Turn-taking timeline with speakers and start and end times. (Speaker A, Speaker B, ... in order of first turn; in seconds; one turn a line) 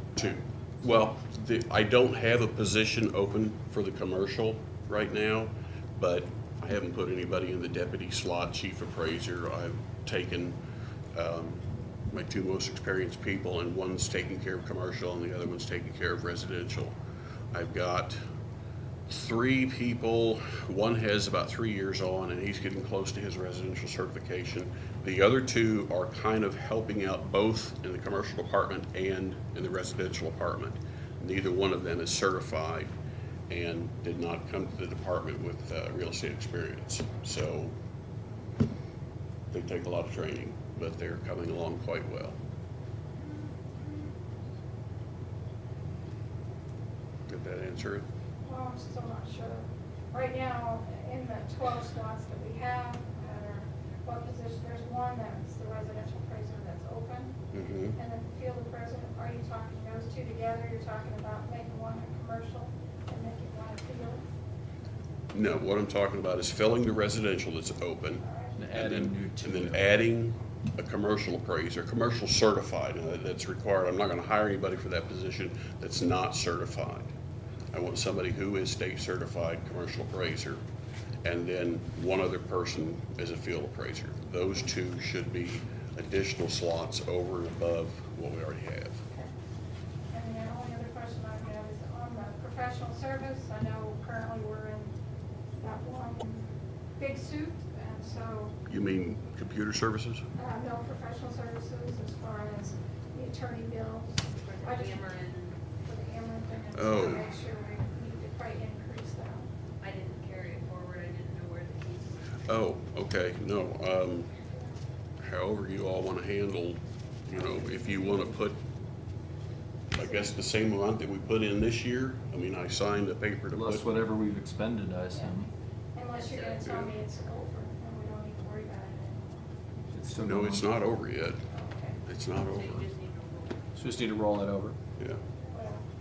Speaker A: 0.2-10.6
Speaker A: 11.1-16.9
Speaker A: 17.5-18.2
Speaker A: 19.1-32.9
Speaker A: 33.5-37.7
Speaker A: 39.5-42.4
Speaker A: 47.3-48.1
Speaker B: 48.4-57.4
Speaker A: 57.5-58.0
Speaker B: 58.0-64.3
Speaker A: 65.3-77.1
Speaker B: 68.2-68.8
Speaker C: 68.6-70.0
Speaker A: 77.7-80.6
Speaker A: 81.2-89.0
Speaker B: 90.1-95.0
Speaker B: 95.6-98.5
Speaker A: 98.7-100.2
Speaker B: 100.4-105.1
Speaker D: 104.3-105.6
Speaker B: 105.8-109.5
Speaker A: 106.7-107.3
Speaker D: 109.8-112.4
Speaker A: 112.5-114.3
Speaker A: 115.2-118.6
Speaker B: 117.4-118.3
Speaker A: 119.9-124.1
Speaker B: 120.0-120.3
Speaker C: 123.5-125.5
Speaker B: 125.1-129.5
Speaker D: 126.1-126.6
Speaker A: 126.6-126.9
Speaker C: 129.9-130.7
Speaker A: 130.2-131.4
Speaker B: 131.5-132.0
Speaker A: 132.1-132.9
Speaker D: 132.4-133.7
Speaker C: 133.8-134.8
Speaker B: 135.5-135.8